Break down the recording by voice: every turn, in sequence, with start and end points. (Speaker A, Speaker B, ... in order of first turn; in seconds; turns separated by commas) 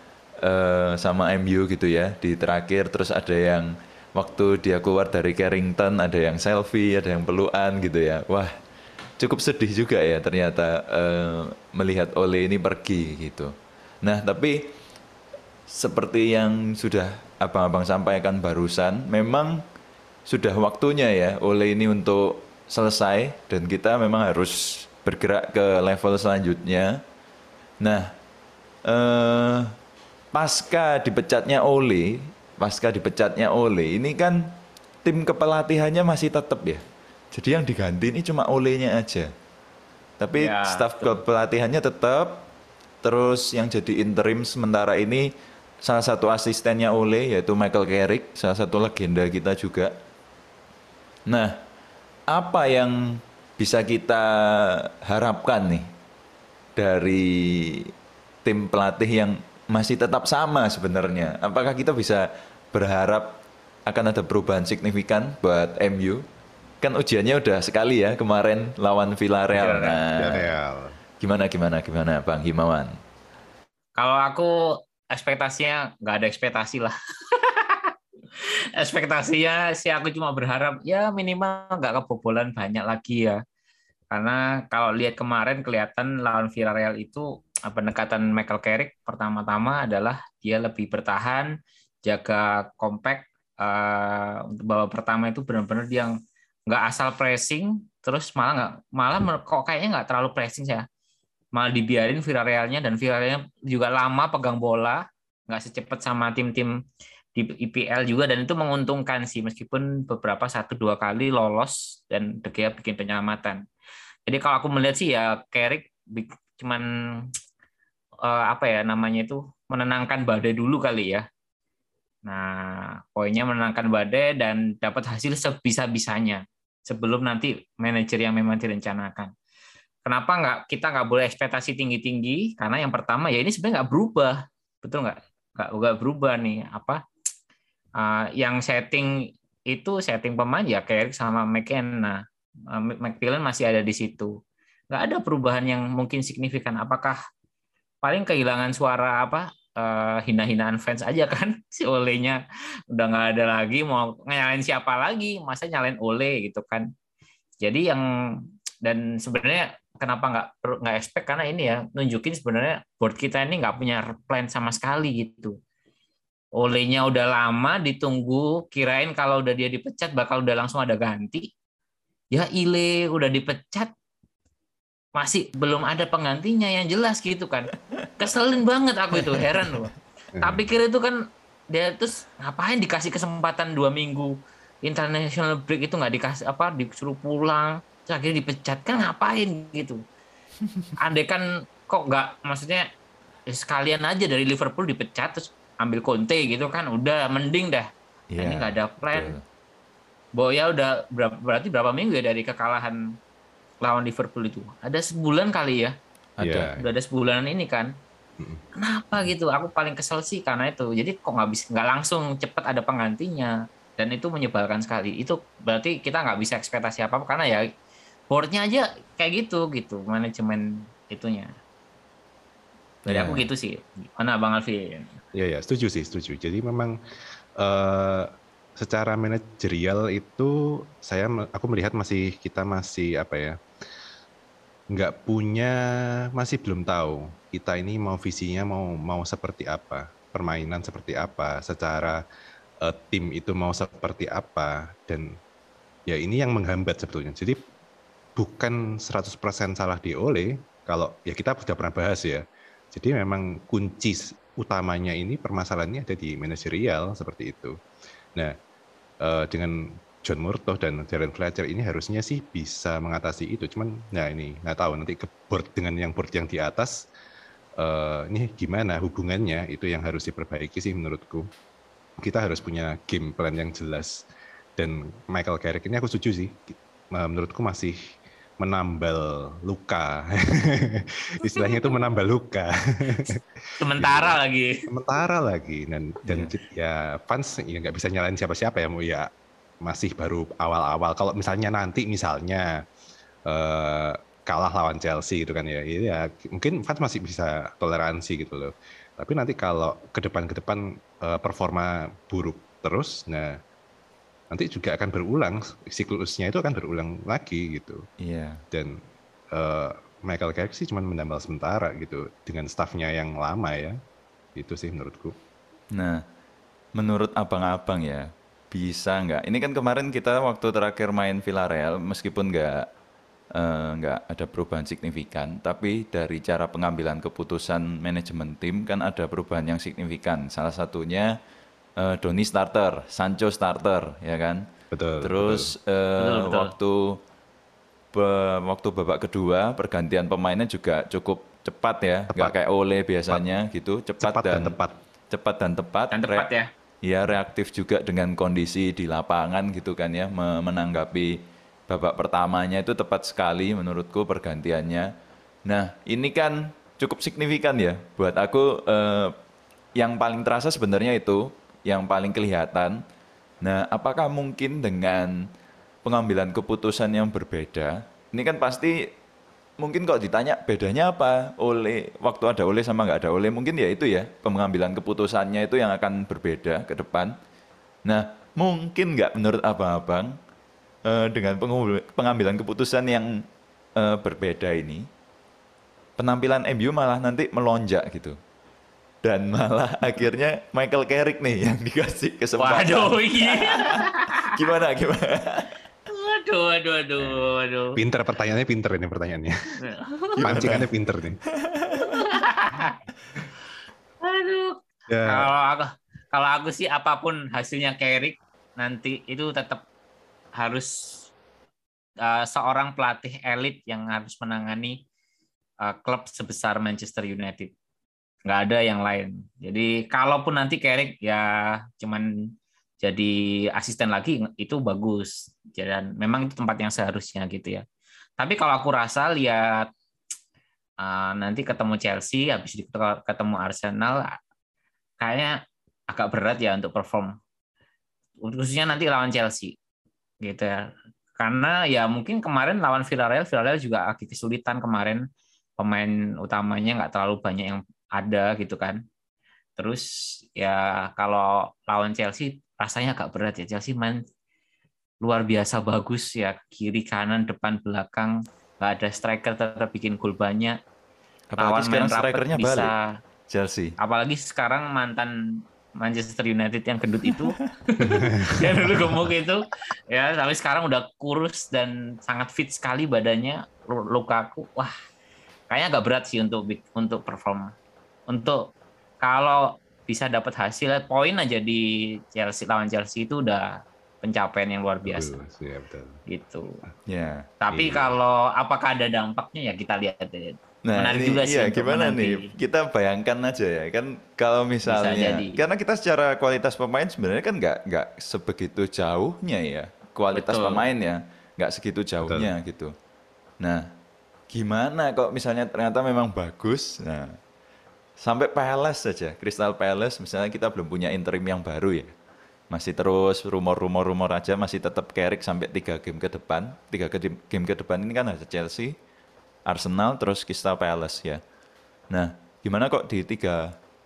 Speaker A: 0.4-8.5, Speaker A: 9.2-13.5, Speaker A: 14.0-14.7, Speaker A: 15.7-19.6, Speaker A: 20.3-27.0, Speaker A: 27.8-28.1, Speaker A: 28.9-29.7, Speaker A: 30.3-34.5, Speaker A: 35.0-39.3, Speaker A: 40.2-42.5, Speaker B: 40.4-41.2, Speaker A: 43.0-45.3, Speaker A: 45.8-49.9, Speaker A: 51.3-51.6, Speaker A: 52.3-55.9, Speaker A: 56.8-57.9, Speaker A: 58.5-63.4, Speaker A: 63.9-66.2, Speaker A: 66.8-70.5, Speaker B: 69.5-70.0, Speaker C: 70.2-71.0, Speaker A: 71.2-72.9, Speaker B: 74.0-74.5, Speaker B: 75.1-77.9, Speaker B: 78.8-83.4, Speaker B: 84.1-91.5, Speaker B: 92.1-96.1, Speaker B: 96.7-100.9, Speaker B: 101.6-106.7, Speaker B: 107.3-113.6, Speaker B: 114.3-116.8, Speaker B: 118.2-121.2, Speaker B: 122.3-129.3, Speaker B: 130.1-137.0, Speaker B: 138.0-139.1, Speaker B: 139.7-142.2, Speaker B: 142.7-144.3, Speaker B: 144.9-147.2, Speaker B: 148.0-152.4, Speaker B: 152.9-156.9, Speaker B: 157.6-158.0, Speaker B: 158.8-165.6, Speaker B: 166.6-171.5, Speaker B: 172.3-173.9, Speaker B: 175.2-181.2, Speaker A: 179.3-179.7, Speaker C: 180.4-180.7, Speaker B: 181.7-190.0, Speaker B: 191.0-192.9, Speaker B: 193.5-197.9, Speaker A: 198.3-199.4, Speaker B: 198.4-199.4, Speaker B: 200.4-203.0, Speaker B: 203.8-205.9, Speaker A: 206.4-206.8, Speaker C: 206.4-206.8, Speaker B: 206.8-207.9, Speaker C: 208.4-208.6, Speaker B: 208.8-217.6, Speaker B: 218.3-221.5, Speaker B: 223.1-225.1, Speaker C: 223.1-223.4, Speaker C: 225.3-226.9, Speaker C: 227.6-233.6, Speaker C: 234.9-235.8, Speaker C: 236.4-242.2, Speaker C: 242.8-245.3, Speaker C: 246.1-247.6, Speaker C: 248.4-257.7, Speaker C: 259.2-267.1, Speaker C: 267.8-271.5, Speaker C: 272.2-274.3, Speaker C: 274.8-278.0, Speaker C: 278.6-283.4, Speaker B: 283.8-284.8, Speaker C: 284.0-289.3, Speaker C: 289.8-292.7, Speaker C: 293.5-303.5, Speaker C: 304.5-308.0, Speaker A: 308.2-308.6, Speaker C: 308.7-309.0, Speaker C: 309.5-314.0, Speaker C: 314.6-315.4, Speaker A: 315.9-316.2, Speaker A: 316.9-322.9, Speaker A: 323.6-331.4, Speaker A: 332.0-334.7, Speaker C: 334.9-335.7, Speaker A: 335.2-337.2, Speaker B: 336.2-336.7, Speaker A: 338.1-344.8, Speaker C: 342.3-342.6, Speaker C: 344.2-345.0, Speaker A: 345.3-346.5, Speaker B: 346.1-346.7, Speaker A: 347.0-355.1, Speaker A: 355.6-359.4, Speaker A: 360.0-363.0, Speaker A: 363.6-365.5, Speaker A: 366.0-369.1, Speaker A: 369.8-377.4, Speaker A: 378.1-380.4, Speaker A: 381.1-383.4, Speaker A: 384.0-385.1, Speaker A: 386.2-388.4, Speaker A: 389.2-395.7, Speaker B: 392.6-394.5, Speaker B: 396.1-397.9, Speaker C: 398.0-399.8, Speaker B: 399.8-400.8, Speaker A: 400.4-400.9, Speaker C: 400.4-401.4, Speaker A: 401.6-402.2, Speaker B: 402.0-403.0, Speaker B: 404.2-409.8, Speaker C: 405.1-405.5, Speaker B: 410.6-411.3, Speaker B: 412.2-415.0, Speaker B: 415.9-417.7, Speaker B: 418.4-422.2, Speaker B: 423.0-427.9, Speaker B: 428.4-429.9, Speaker B: 431.0-434.3, Speaker B: 435.2-435.6, Speaker B: 436.1-437.4, Speaker B: 438.4-439.7, Speaker B: 440.4-440.8, Speaker B: 441.4-445.2, Speaker B: 445.8-449.0, Speaker B: 449.8-454.2, Speaker B: 455.2-460.8, Speaker A: 461.5-462.9, Speaker B: 461.6-463.0, Speaker A: 463.5-464.0, Speaker B: 464.0-465.3, Speaker B: 466.0-474.9, Speaker C: 468.1-468.6, Speaker B: 475.7-477.7, Speaker B: 478.3-478.6, Speaker B: 479.2-483.7, Speaker B: 484.2-485.3, Speaker C: 485.1-486.2, Speaker B: 486.3-486.7, Speaker A: 487.1-487.5, Speaker B: 487.6-492.5, Speaker C: 487.8-488.1, Speaker A: 490.9-502.9, Speaker B: 494.9-495.6, Speaker B: 500.3-500.9, Speaker C: 502.2-502.5, Speaker A: 503.6-503.9, Speaker A: 504.5-507.4, Speaker A: 508.2-512.1, Speaker A: 512.7-519.0, Speaker A: 519.7-521.4, Speaker A: 522.1-523.7